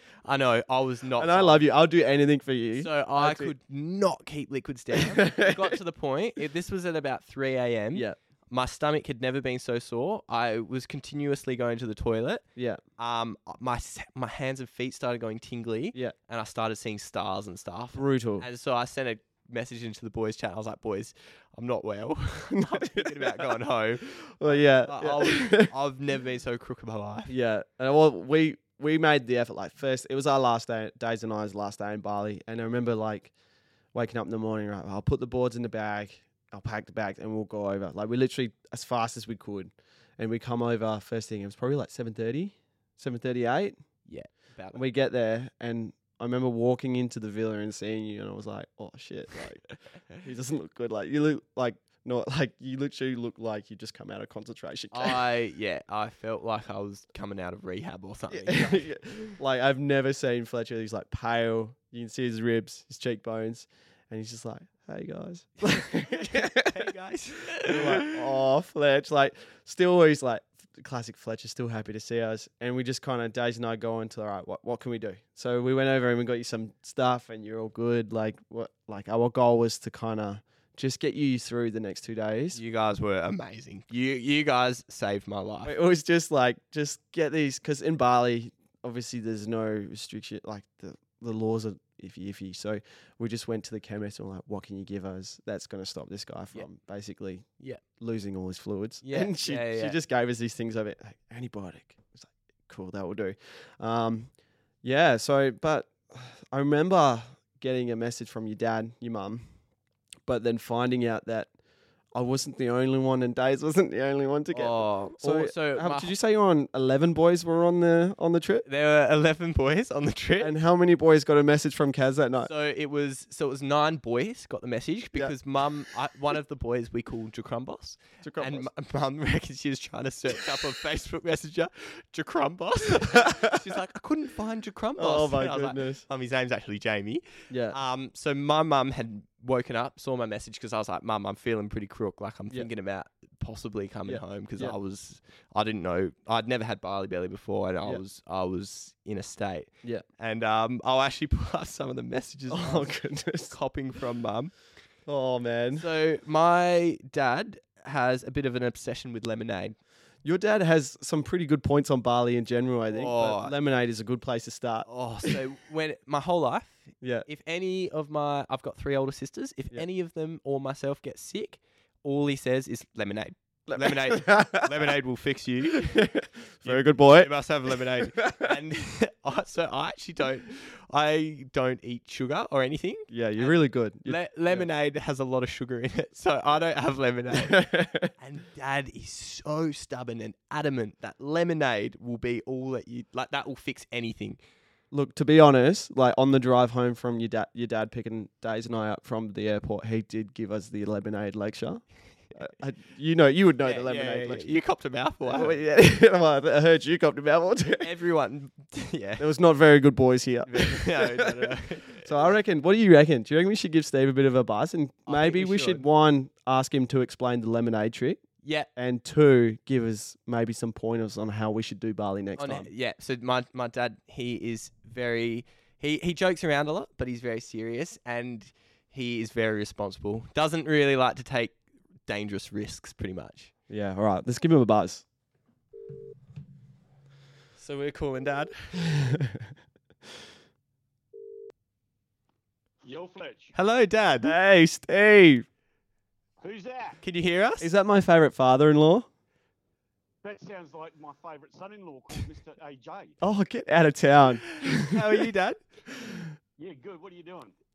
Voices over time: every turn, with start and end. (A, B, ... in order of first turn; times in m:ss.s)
0:00.2-0:01.6 A
0:01.2-0:03.5 B
0:02.8-0:12.4 A
0:05.0-0:05.8 B
0:12.6-0:12.8 B
0:13.0-0:27.3 A
0:18.0-0:18.4 B
0:22.5-0:23.5 B
0:24.0-0:25.7 B
0:27.3-0:33.3 B
0:33.9-0:43.8 B
0:44.0-0:44.8 A
0:44.7-0:55.2 B
0:54.9-0:58.9 A
0:58.3-1:06.7 B
1:05.9-1:08.2 A
1:07.6-1:22.6 B
1:22.5-1:25.7 A
1:25.6-1:44.3 B
1:39.0-1:40.0 A
1:44.8-1:49.4 B
1:50.3-1:51.5 B
1:52.1-1:58.7 B
1:54.5-1:56.1 A
1:58.7-2:00.5 A
2:00.4-2:02.5 B
2:02.4-2:32.9 A
2:08.2-2:08.7 B
2:13.1-2:13.6 B
2:15.0-2:16.0 B
2:17.5-2:17.8 B
2:24.1-2:24.8 B
2:32.5-2:33.6 B
2:33.5-2:34.5 A
2:35.1-2:35.9 B
2:35.8-2:39.8 A
2:40.2-2:45.4 B
2:42.9-2:43.5 A
2:44.9-2:56.0 A
2:53.7-2:54.9 B
2:55.7-2:58.6 B
2:56.6-3:14.4 A
3:03.1-3:04.7 B
3:07.4-3:08.1 B
3:14.9-3:24.5 B
3:23.6-3:25.6 A
3:25.2-3:27.9 B
3:27.8-3:29.2 A
3:29.2-3:38.2 B
3:30.4-3:32.1 A
3:35.1-3:35.8 A
3:38.4-3:38.7 A
3:38.8-3:42.7 B
3:42.4-3:53.5 A
3:53.7-3:55.0 B
3:57.6-3:58.8 A
3:58.8-3:59.5 B
4:02.8-4:03.6 C
4:03.6-4:04.4 A
4:04.2-4:05.4 B
4:06.4-4:07.0 C
4:07.0-4:07.7 A
4:07.6-4:09.1 B
4:10.2-4:13.2 C
4:13.2-4:15.2 B
4:14.5-4:15.6 A
4:15.9-4:16.3 B
4:16.6-4:17.5 C